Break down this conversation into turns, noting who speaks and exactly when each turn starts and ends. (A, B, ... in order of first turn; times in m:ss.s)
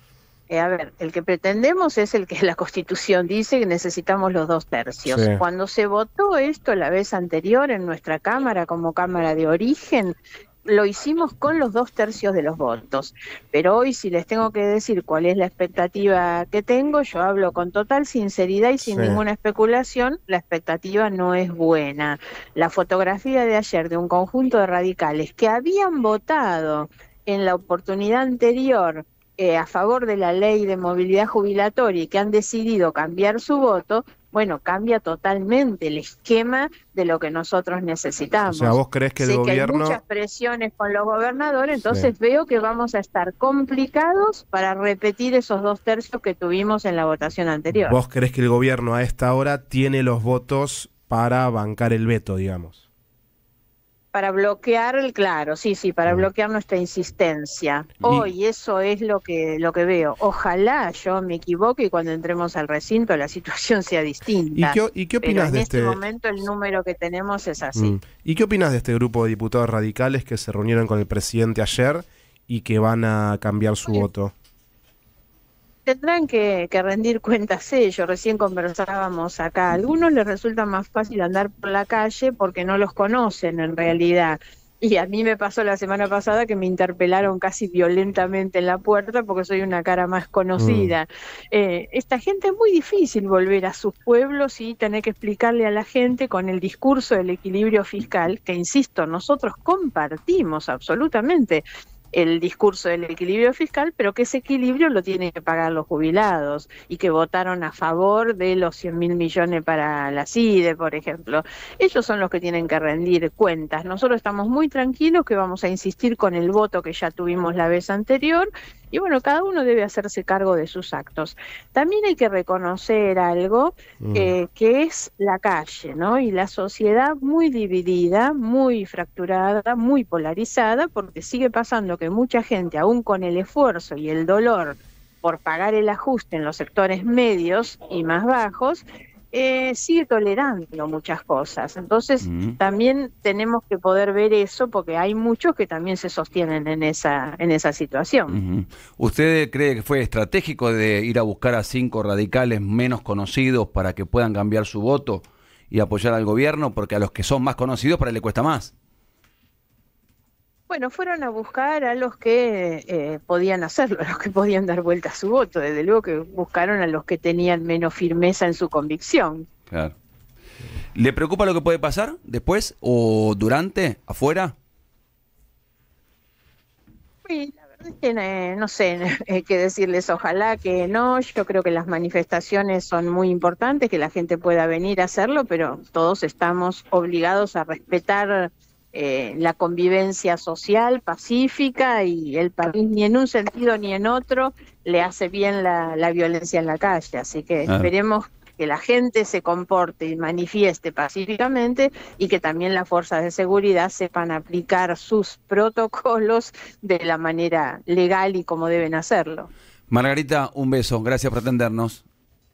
0:00.5-0:48.0 A
0:05.1-0:05.4 B
0:18.8-0:19.2 B
0:38.5-0:40.0 B
0:41.8-0:42.1 B
0:47.7-0:52.8 B
0:54.1-1:08.0 A
0:58.0-0:58.3 B
1:04.5-1:06.0 B
1:07.7-1:14.3 B
1:15.8-2:28.4 A
1:30.6-1:31.0 B
2:04.0-2:04.3 B
2:22.2-2:22.6 C
2:28.3-2:38.7 C
2:40.7-2:49.5 A
2:49.7-2:50.0 C
2:51.0-2:54.5 C
2:57.2-3:29.5 A
3:17.7-3:17.9 C
3:29.9-3:32.0 C